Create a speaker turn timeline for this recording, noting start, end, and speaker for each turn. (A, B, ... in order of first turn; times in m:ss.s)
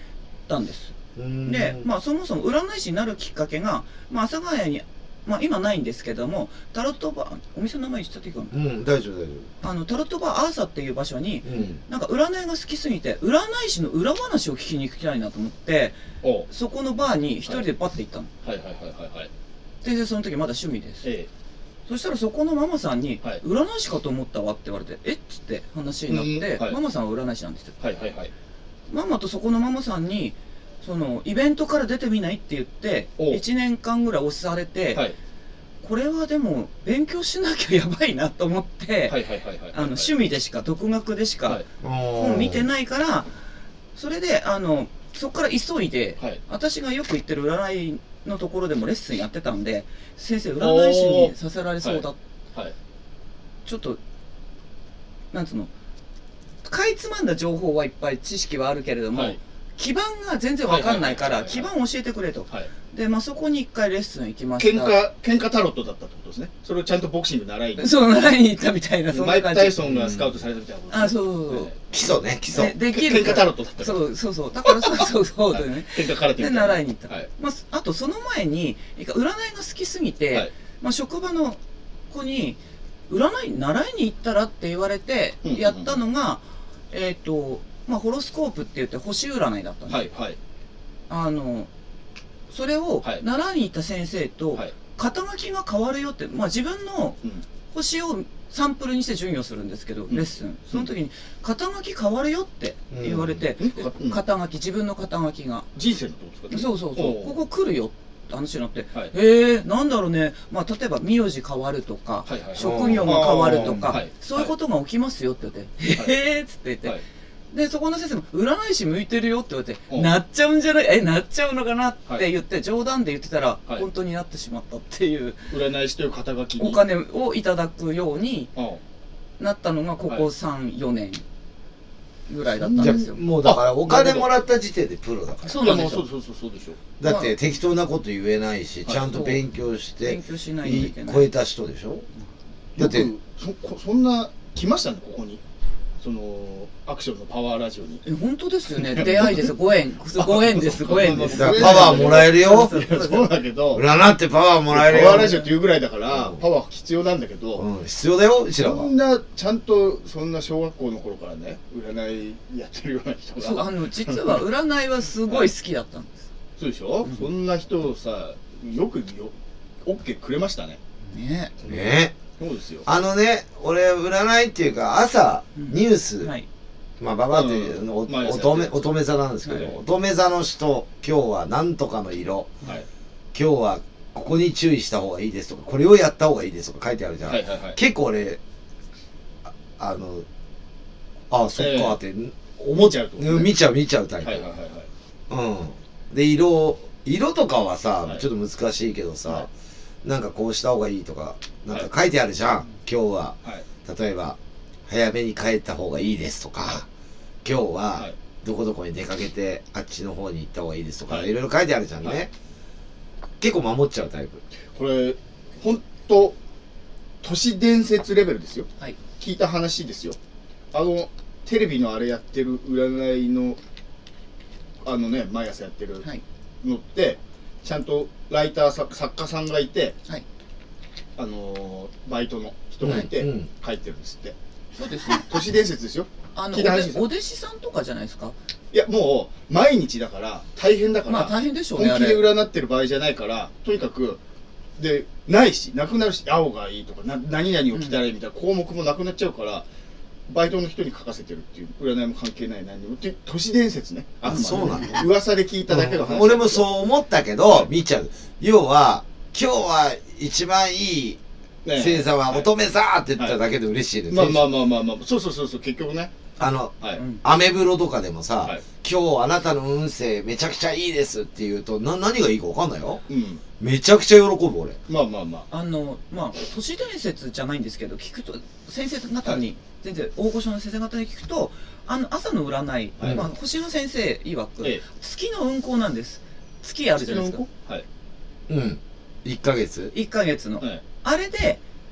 0:00.5-0:08.5 A
0:01.2-0:01.9 B
0:08.5-0:09.5 B
0:09.6-0:16.0 A
0:11.4-0:11.8 B
0:16.2-0:16.5 C
0:16.5-0:18.3 A
0:18.4-0:19.3 C
0:19.8-0:21.0 A
0:21.0-0:21.3 C
0:21.9-0:27.8 A
0:26.1-0:26.8 C
0:27.8-0:28.3 C
0:28.9-0:35.1 A
0:35.8-0:39.2 A
0:39.1-0:40.1 C
0:39.7-0:43.3 A
0:41.8-0:42.7 B
0:43.9-0:52.2 A
0:50.6-0:52.7 C
0:53.6-0:54.0 A
0:55.3-0:55.7 A
0:56.6-1:05.0 A
0:59.1-0:59.4 C
1:00.6-1:01.7 C
1:04.6-1:08.0 C
1:07.8-1:09.8 A
1:09.1-1:11.8 C
1:09.8-1:10.3 B
1:10.9-1:11.7 A
1:11.9-1:12.8 B
1:12.5-1:21.6 A
1:12.9-1:14.0 C
1:14.6-1:17.3 C
1:22.1-1:30.1 A
1:25.4-1:26.0 C
1:29.9-1:30.4 C
1:31.1-1:31.7 A
1:32.5-1:45.7 A
1:40.1-1:40.9 C
1:42.9-1:43.4 B
1:43.6-1:44.2 C
1:45.7-1:47.4 C
1:46.5-1:57.0 A
1:52.2-1:54.5 C
1:52.6-1:53.8 B
1:57.5-2:05.5 A
2:05.5-2:06.8 C
2:06.6-2:08.5 A
2:08.6-2:08.8 C
2:09.4-2:11.2 A
2:12.3-2:13.2 A
2:12.6-2:14.3 C
2:12.8-2:15.9 B
2:15.4-2:16.0 A
2:15.6-2:16.8 C
2:17.0-2:22.0 B
2:17.0-2:17.3 A
2:19.0-2:19.4 A
2:20.0-2:21.3 A
2:22.8-2:23.1 B
2:22.8-2:25.4 C
2:26.0-2:28.0 C
2:28.0-2:33.3 A
2:28.7-2:29.5 C
2:30.2-2:33.8 C
2:31.3-2:33.0 B
2:33.7-2:35.3 B
2:34.7-2:37.6 C
2:35.0-2:35.5 A
2:36.1-2:36.4 B
2:37.6-2:38.9 B
2:38.6-2:44.4 C
2:43.4-2:46.2 A
2:46.6-2:49.3 C
2:49.8-2:50.8 C
2:51.0-2:51.5 A
2:51.7-2:52.1 B
2:52.4-2:52.9 C
2:52.8-2:56.3 B
2:55.6-2:56.5 A
2:57.0-3:02.5 B
2:57.3-2:58.8 C
2:59.5-2:59.7 C
3:03.3-3:08.4 B
3:07.2-3:07.8 C
3:09.8-3:10.2 B
3:11.3-3:14.4 B
3:11.6-3:12.0 C
3:12.7-3:13.5 C
3:14.2-3:14.9 C
3:15.3-3:19.5 B
3:20.0-3:24.4 B
3:24.9-3:26.8 B
3:27.4-3:32.3 B
3:33.4-3:34.4 B
3:34.7-3:36.4 C
3:37.2-3:40.2 C
3:40.7-3:43.6 C
3:44.8-3:46.0 C
3:46.6-3:50.0 C
3:51.2-3:54.3 C
3:52.8-3:53.5 B
3:54.7-3:55.3 A
3:55.1-3:57.0 C
3:56.3-3:58.4 A
3:58.7-4:04.2 C
4:01.1-4:02.2 A
4:04.8-4:09.6 C
4:10.3-4:16.7 C
4:14.2-4:15.0 B
4:15.7-4:21.2 B
4:21.6-4:22.5 C
4:21.7-4:24.5 B
4:24.1-4:26.1 C
4:26.4-4:27.2 A
4:26.4-4:33.0 B
4:33.1-4:33.4 C
4:33.6-4:34.8 B
4:34.9-4:35.5 C
4:35.5-4:47.4 A
4:43.0-4:43.3 C
4:47.0-4:47.8 C
4:48.5-4:49.9 B
4:49.9-4:51.6 A